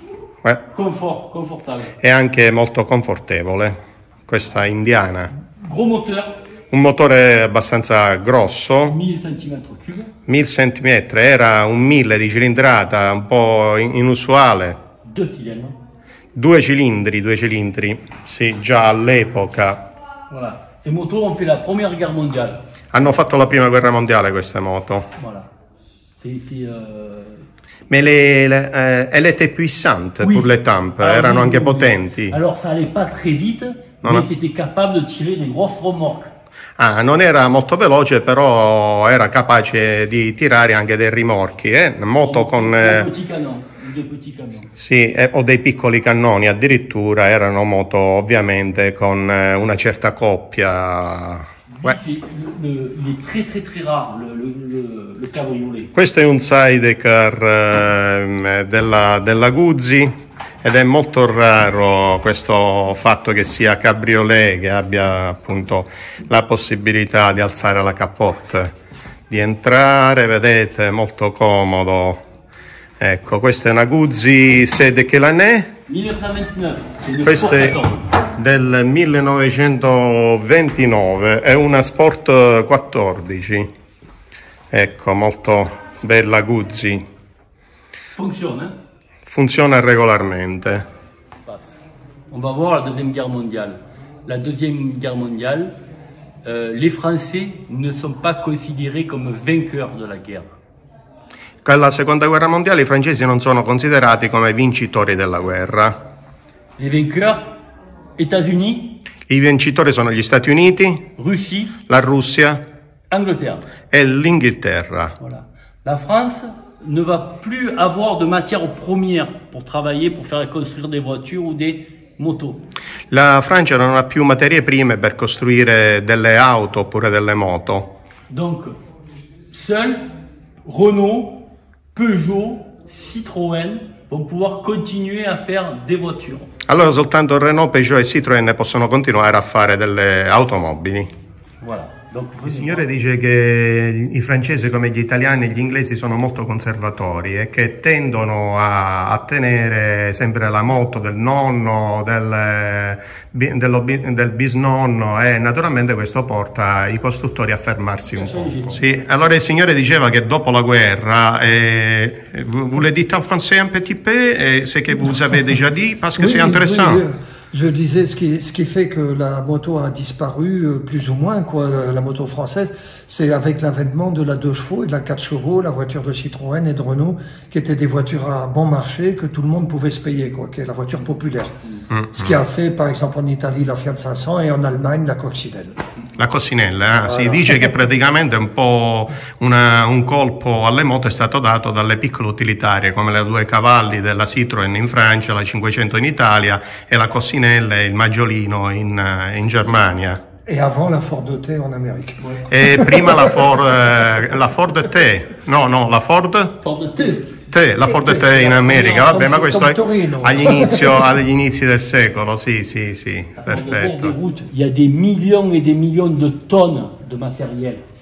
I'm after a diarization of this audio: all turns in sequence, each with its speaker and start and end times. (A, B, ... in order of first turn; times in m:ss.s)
0:00.7-0:02.0 A
0:02.0-0:05.3 B
0:05.6-0:06.4 A
0:06.7-0:09.0 B
0:08.8-0:10.1 A
0:10.3-0:14.8 B
0:15.0-0:15.8 A
0:16.4-0:19.9 B
0:20.3-0:22.6 A
0:22.9-0:25.1 B
0:25.2-0:25.5 A
0:26.2-0:27.5 A
0:27.9-0:32.4 B
0:30.2-0:36.3 A
0:36.8-0:43.1 B
0:42.2-0:44.7 A
0:44.8-0:52.0 B
0:51.7-0:55.9 A
0:55.9-1:08.8 B
1:09.3-1:12.2 B
1:13.0-1:15.7 B
1:15.9-1:18.1 A
1:17.2-1:17.8 B
1:18.3-1:23.7 B
1:24.7-1:27.0 B
1:28.2-1:28.7 A
1:29.3-1:30.8 B
1:31.5-1:31.8 A
1:32.3-1:35.7 A
1:36.4-1:40.5 A
1:41.6-1:46.0 B
1:46.8-1:47.5 A
1:48.2-1:49.0 A
1:49.3-1:51.1 B
1:51.2-1:51.8 A
1:51.9-1:52.6 B
1:53.1-1:53.6 A
1:53.9-1:55.2 B
1:55.2-2:02.6 A
2:03.1-2:07.9 B
2:08.3-2:08.8 A
2:09.5-2:10.0 A
2:10.6-2:16.5 A
2:16.7-2:21.1 B
2:21.6-2:22.9 A
2:22.4-2:47.0 B
2:38.1-2:38.8 A
2:46.2-3:01.6 C
3:01.9-3:02.4 B
3:02.1-3:05.8 C
3:06.2-3:20.2 B
3:07.0-3:07.6 C
3:20.5-3:23.4 C
3:22.5-3:26.6 B
3:26.6-3:27.4 A
3:27.5-3:34.2 B
3:28.0-3:29.7 A
3:28.8-3:31.1 C
3:33.4-3:37.8 A